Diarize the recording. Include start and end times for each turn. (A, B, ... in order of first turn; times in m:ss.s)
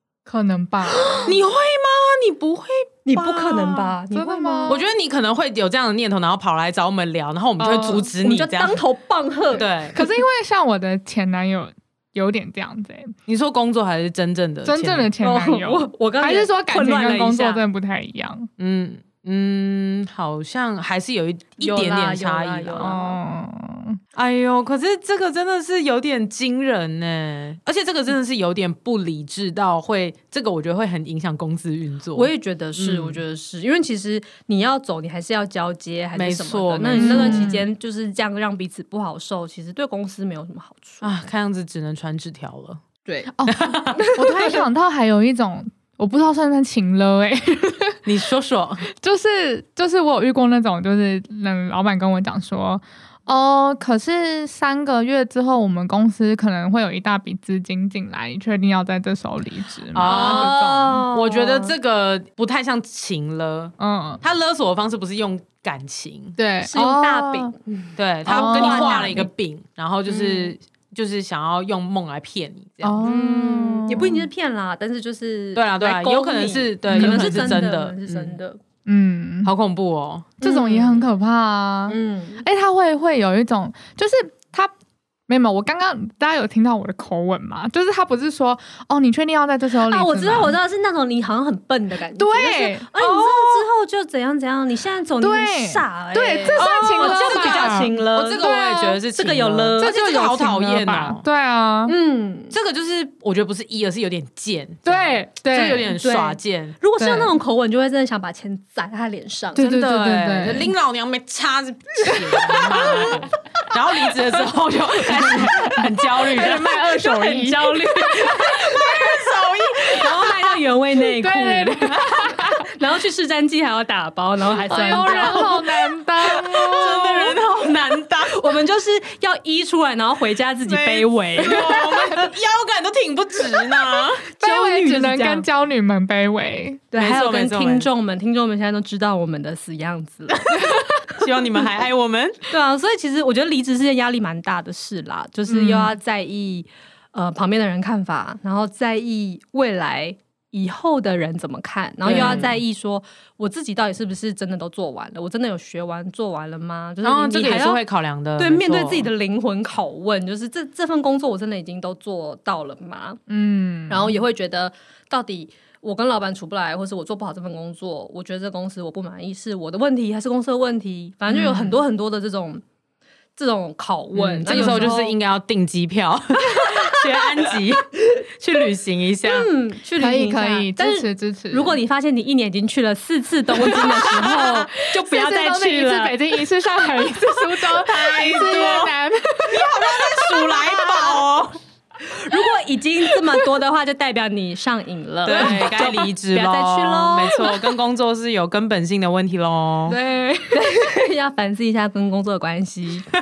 0:00.3-0:01.2 A
0:00.9-0:01.3 B
0:01.2-0:03.9 C
0:03.1-0:04.8 B
0:04.1-0:04.8 A
0:04.7-0:08.8 C
0:07.6-0:10.1 B
0:09.5-0:10.0 C
0:09.9-0:13.2 A
0:13.3-0:15.1 C
0:14.6-0:18.5 A
0:15.2-0:17.6 B
0:18.6-0:22.9 C
0:21.6-0:23.2 B
0:22.8-0:24.0 A
0:24.2-0:33.2 C
0:32.1-0:41.1 B
0:36.1-0:37.6 C
0:37.0-0:37.6 A
0:41.0-0:42.8 C
0:43.1-0:43.3 B
0:43.3-0:48.0 A
0:43.5-0:44.0 C
0:43.9-0:44.6 B
0:48.1-0:48.8 C
0:48.9-1:01.0 A
0:59.9-1:06.4 C
1:00.0-1:01.8 B
1:03.8-1:04.2 A
1:06.4-1:07.5 A
1:06.6-1:09.3 B
1:08.0-1:13.2 C
1:08.3-1:09.3 A
1:10.1-1:10.6 B
1:12.8-1:14.3 A
1:13.0-1:18.6 B
1:15.6-1:18.4 C
1:16.9-1:17.4 A
1:18.9-1:19.5 A
1:19.4-1:20.4 C
1:20.4-1:21.1 B
1:20.4-1:24.7 A
1:21.9-1:22.4 B
1:25.3-1:30.6 A
1:29.9-1:38.5 B
1:32.2-1:33.1 A
1:33.1-1:33.4 C
1:35.2-1:39.0 A
1:36.6-1:41.2 C
1:39.1-1:40.0 B
1:39.8-1:41.9 A
1:41.9-1:42.6 B
1:42.5-1:46.8 C
1:44.8-1:46.0 A
1:45.9-1:49.7 B
1:47.0-1:47.4 A
1:49.6-1:50.7 A
1:49.6-1:56.7 C
1:52.1-1:53.1 A
1:52.8-1:53.2 B
1:55.1-1:58.3 A
1:56.4-2:12.3 B
1:58.4-2:00.4 C
2:01.0-2:02.6 A
2:04.7-2:07.1 A
2:06.5-2:08.4 C
2:10.6-2:14.3 C
2:14.3-2:15.5 B
2:14.4-2:16.8 A
2:16.9-2:20.7 B
2:17.0-2:17.9 C
2:21.1-2:22.4 C
2:22.5-2:37.8 B
2:25.5-2:25.9 A
2:32.0-2:32.6 C
2:32.2-2:32.4 A
2:37.0-2:39.1 C
2:38.4-2:43.2 B
2:43.3-2:44.1 A
2:43.9-2:52.6 B
2:51.3-2:51.8 A
2:53.4-2:55.2 B
2:54.2-2:59.5 C
2:54.5-2:54.9 A
2:56.6-2:57.2 B
2:59.2-3:06.2 B
3:00.0-3:01.8 A
3:04.1-3:04.5 C
3:04.3-3:09.7 A
3:07.6-3:09.0 C
3:09.5-3:11.6 C
3:09.6-3:11.2 B
3:12.0-3:17.6 B
3:15.2-3:20.0 C
3:19.9-3:20.6 A
3:20.4-3:23.1 B